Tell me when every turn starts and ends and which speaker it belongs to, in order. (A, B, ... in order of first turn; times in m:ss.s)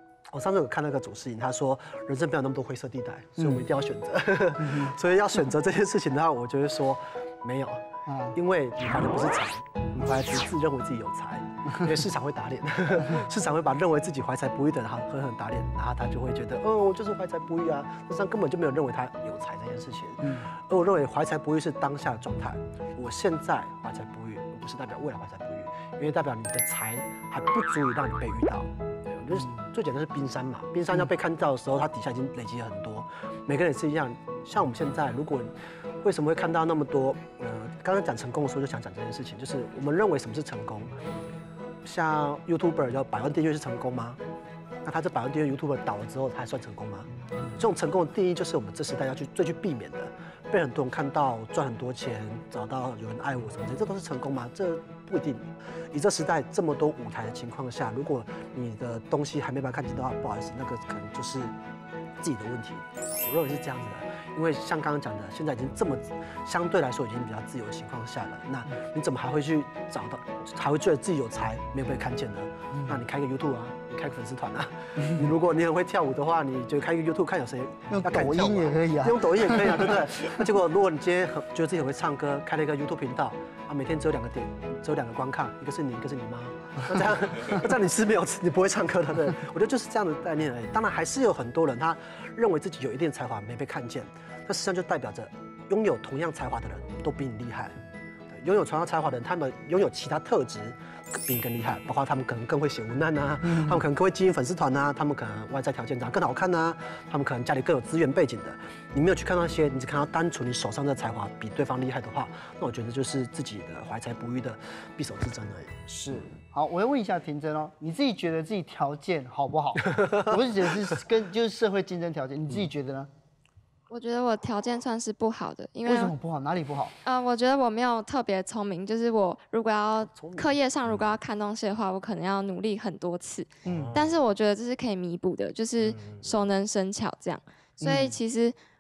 0:00.3-0:40.9 A
0:04.6-0:04.9 B
0:08.1-0:08.4 B
0:20.2-0:20.5 B
0:41.8-0:44.2 A
0:44.8-1:01.6 A
1:02.2-1:37.8 A
1:17.9-1:20.3 B
1:38.3-1:55.8 A
1:43.5-1:43.8 B
1:55.9-2:03.1 B
2:03.9-2:06.1 C
2:05.9-2:06.9 B
2:07.0-2:18.6 C
2:10.1-2:10.5 A
2:13.6-2:14.0 B
2:13.6-2:14.2 A
2:15.8-2:16.3 A
2:17.8-2:18.2 B